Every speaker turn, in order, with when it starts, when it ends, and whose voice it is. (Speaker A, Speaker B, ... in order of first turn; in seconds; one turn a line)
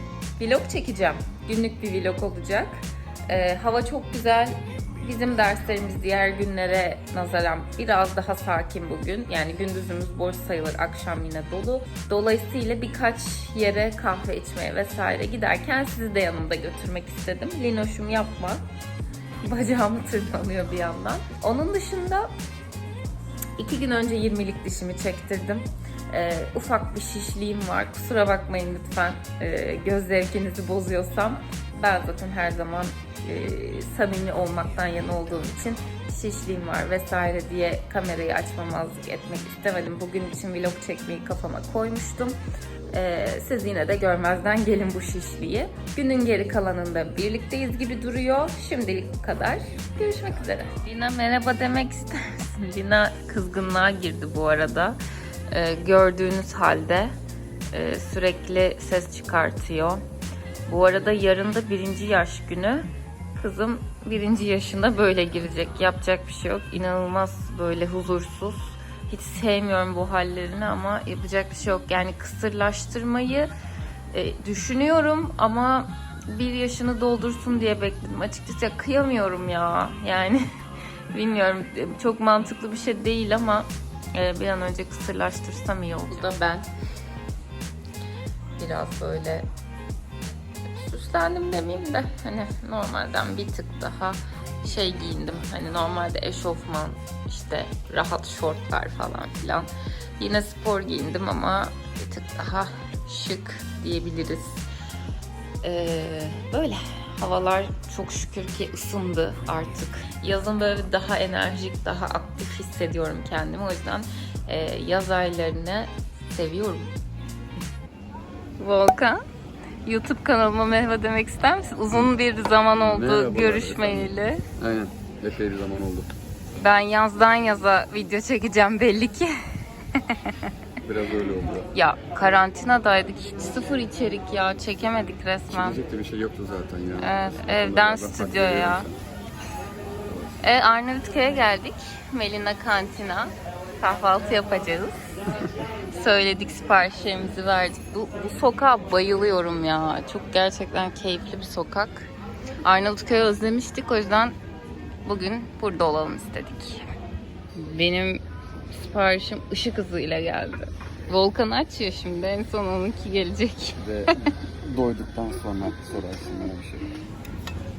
Speaker A: 0.4-18.6
Speaker A: 19.4-22.3
Speaker A: 23.6-42.4
Speaker A: 42.9-55.0
Speaker A: 55.5-57.1
Speaker A: 57.7-60.0
Speaker A: 60.7-73.5
Speaker A: 74.1-80.5
Speaker A: 81.1-86.7
Speaker A: 88.6-89.5
Speaker A: 90.7-104.6
Speaker A: 105.6-116.9
Speaker A: 118.6-119.2
Speaker A: 119.8-124.4
Speaker B: 122.8-126.1
Speaker A: 126.6-129.3
Speaker A: 129.9-130.5
Speaker B: 130.8-131.7
Speaker A: 131.7-135.8
Speaker B: 135.5-139.0
Speaker A: 137.0-138.9
Speaker B: 140.1-140.3
Speaker A: 140.4-145.0
Speaker A: 145.9-152.1
Speaker A: 152.7-154.3
Speaker A: 155.1-156.9
Speaker A: 157.6-163.8
Speaker B: 163.8-166.9